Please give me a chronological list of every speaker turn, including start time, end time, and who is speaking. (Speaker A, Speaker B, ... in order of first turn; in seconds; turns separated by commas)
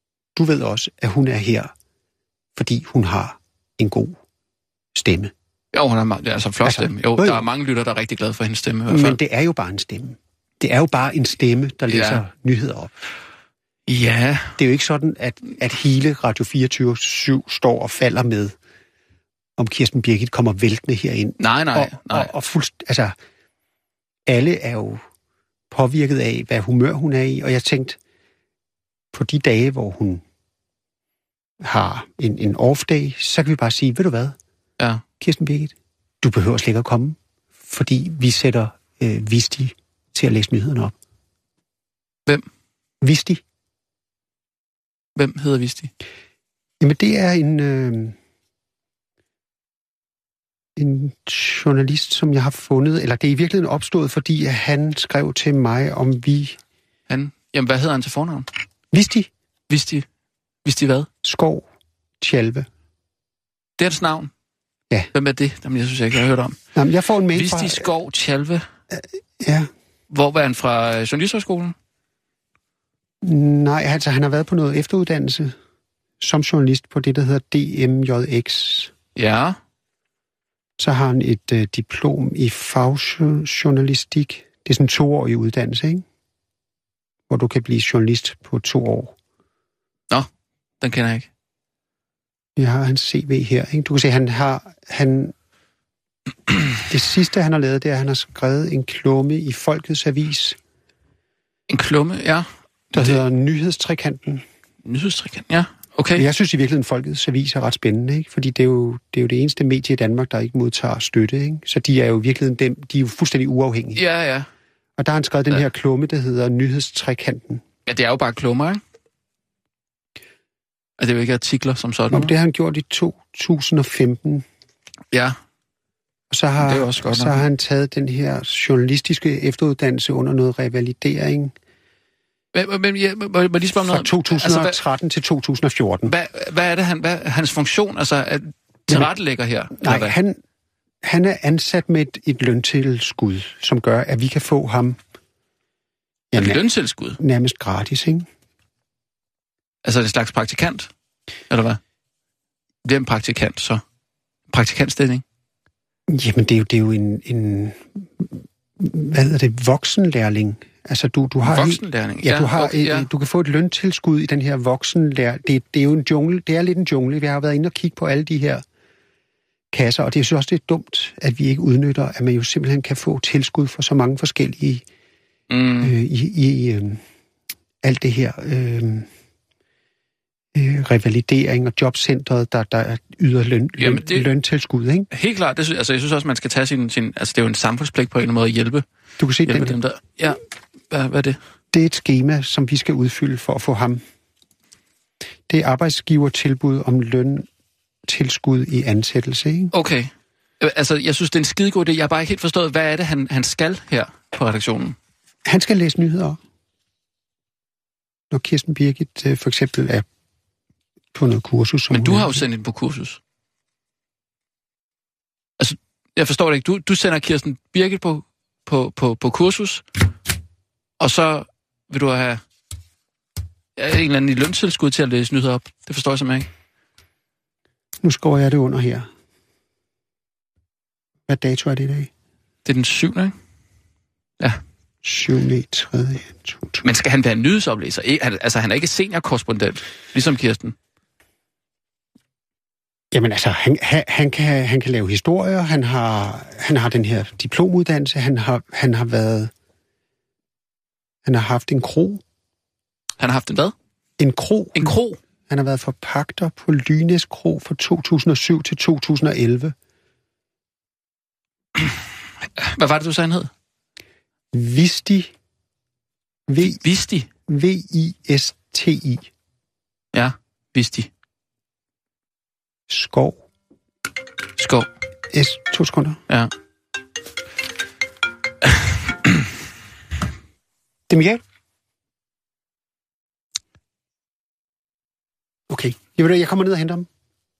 Speaker A: 0.3-1.7, Speaker A: 2.5-4.2, Speaker A: 5.0-5.3, Speaker B: 5.7-9.2, Speaker A: 6.6-7.5, Speaker A: 8.9-13.0, Speaker B: 11.9-12.2, Speaker B: 13.9-14.6, Speaker A: 14.6-18.6, Speaker A: 19.6-23.2, Speaker B: 21.4-22.3, Speaker A: 24.3-25.0, Speaker A: 25.7-28.0, Speaker A: 29.1-30.2, Speaker A: 31.6-34.4, Speaker A: 35.2-41.0, Speaker A: 43.0-43.4, Speaker B: 45.2-45.9, Speaker A: 46.8-48.2, Speaker A: 50.8-56.6, Speaker B: 57.1-58.5, Speaker A: 58.9-59.3, Speaker B: 59.7-60.0, Speaker B: 60.6-61.1, Speaker A: 61.2-61.7, Speaker A: 62.2-62.7, Speaker B: 63.8-64.3, Speaker B: 65.1-66.6, Speaker A: 66.8-67.9, Speaker B: 67.3-68.7, Speaker A: 68.9-69.7, Speaker B: 70.1-71.8, Speaker A: 73.2-75.5, Speaker A: 76.2-78.9, Speaker B: 79.2-79.6, Speaker A: 80.8-86.0, Speaker A: 87.3-89.2, Speaker B: 90.8-91.3, Speaker A: 92.6-95.3, Speaker A: 96.9-100.6, Speaker B: 101.7-103.2, Speaker A: 102.9-104.5, Speaker B: 104.8-106.3, Speaker A: 106.2-114.0, Speaker B: 114.0-114.5, Speaker A: 115.0-117.6, Speaker B: 117.9-118.8, Speaker B: 121.0-122.3, Speaker A: 122.1-124.5, Speaker A: 126.3-131.5, Speaker B: 126.6-127.4, Speaker B: 132.5-134.8, Speaker A: 133.8-136.1, Speaker B: 136.1-140.2, Speaker A: 139.8-140.4, Speaker A: 141.0-145.0, Speaker A: 146.3-146.6, Speaker B: 146.4-147.2, Speaker A: 147.2-148.3, Speaker B: 149.8-150.9, Speaker B: 151.5-151.8, Speaker B: 152.8-153.8, Speaker B: 154.5-155.2, Speaker A: 156.1-168.6, Speaker B: 161.4-163.1, Speaker A: 169.7-174.8, Speaker B: 175.5-175.9, Speaker A: 175.8-177.0, Speaker A: 177.8-179.1, Speaker A: 180.5-185.1, Speaker B: 183.8-184.3, Speaker B: 185.1-188.8, Speaker A: 189.2-189.8, Speaker B: 189.4-191.4, Speaker A: 191.7-194.0, Speaker A: 195.5-197.5, Speaker A: 198.1-199.7, Speaker B: 199.7-205.0, Speaker A: 205.4-206.4, Speaker A: 208.3-210.1, Speaker A: 211.1-212.4, Speaker B: 211.9-213.2, Speaker B: 215.6-219.8, Speaker B: 221.0-222.4, Speaker B: 223.8-226.5, Speaker A: 228.0-229.1, Speaker A: 231.3-232.1, Speaker B: 232.7-233.3, Speaker A: 235.0-236.8, Speaker B: 236.8-240.8, Speaker A: 243.1-249.5, Speaker A: 251.2-252.2, Speaker B: 253.2-253.7, Speaker A: 254.2-254.9, Speaker B: 254.8-255.2, Speaker A: 255.5-259.8, Speaker B: 262.6-263.5, Speaker A: 264.5-265.3, Speaker A: 266.5-266.8, Speaker B: 266.6-267.3, Speaker A: 267.5-269.3, Speaker B: 270.1-271.1, Speaker A: 272.9-273.4, Speaker B: 274.6-274.9, Speaker A: 275.3-276.2, Speaker A: 281.1-281.4, Speaker A: 285.7-287.1